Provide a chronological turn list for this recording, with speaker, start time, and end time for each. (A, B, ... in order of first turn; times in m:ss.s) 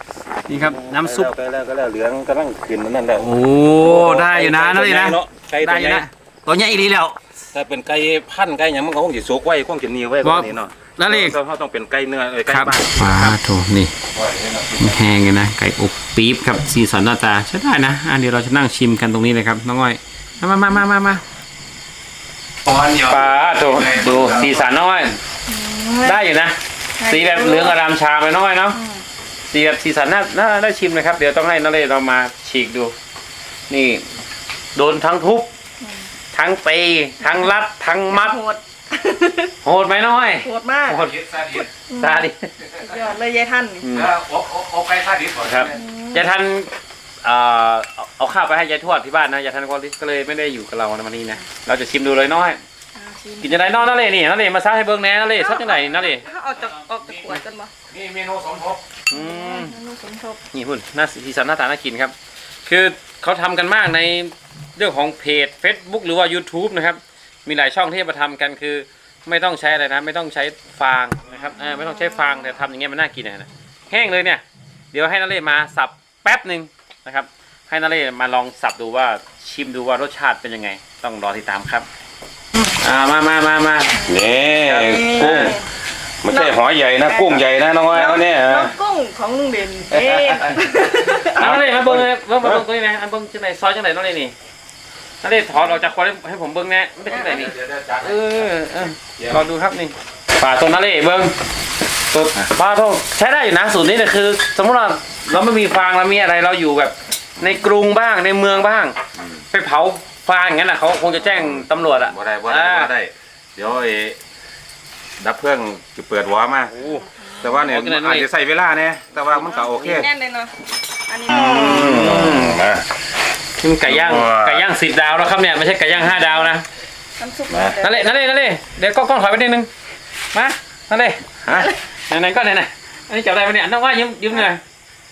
0:00.5-0:01.3 A
0:00.6-0:03.2 B
0:03.2-0:07.2 A
0:03.8-0:06.0 B
0:07.5-0:13.4 B
0:10.2-0:11.4 A
0:12.5-0:13.9 A
0:14.1-0:14.9 B
0:14.8-0:21.2 A
0:22.6-0:24.6 B
0:23.1-0:25.2 A
0:25.5-0:26.2 C
0:26.0-0:28.8 A
0:27.0-0:27.8 C
0:28.7-0:29.0 C
0:29.5-0:32.9 A
0:33.7-0:34.0 A
0:34.7-0:35.5 A
0:35.8-0:36.1 C
0:36.3-0:38.3 A
0:38.1-0:39.5 C
0:39.6-0:41.2 A
0:40.4-0:42.2 C
0:41.2-0:41.7 B
0:42.0-0:42.5 A
0:42.8-0:43.8 C
0:43.8-0:44.1 A
0:43.9-0:45.8 B
0:45.4-0:46.7 A
0:45.7-0:46.3 C
0:47.2-0:52.6 A
0:53.0-0:53.8 C
0:53.4-0:56.2 A
0:55.4-0:57.7 C
0:57.0-0:57.4 B
0:57.9-0:58.8 B
0:59.1-0:59.8 A
0:59.1-1:00.4 C
1:00.5-1:02.1 A
1:02.6-1:21.9 A
1:22.8-1:24.0 A
1:24.0-1:24.2 C
1:24.0-1:25.6 B
1:24.6-1:25.6 A
1:24.7-1:25.6 C
1:26.2-1:28.7 B
1:26.3-1:31.6 C
1:29.9-1:30.6 A
1:31.2-1:34.3 A
1:31.3-1:32.6 B
1:35.2-1:41.3 A
1:37.3-1:39.4 B
1:42.1-1:49.0 A
1:49.2-1:49.4 B
1:49.5-1:52.9 A
1:51.2-1:54.2 B
1:55.2-2:00.1 B
1:57.0-1:57.5 C
1:57.6-1:58.3 A
1:59.3-2:00.5 C
2:01.1-2:02.1 C
2:01.3-2:02.8 B
2:01.4-2:02.6 A
2:03.6-2:06.6 A
2:03.8-2:04.6 B
2:07.2-2:08.1 C
2:07.5-2:07.8 B
2:07.8-2:09.7 A
2:10.3-2:11.2 A
2:11.4-2:11.7 B
2:12.1-2:14.6 A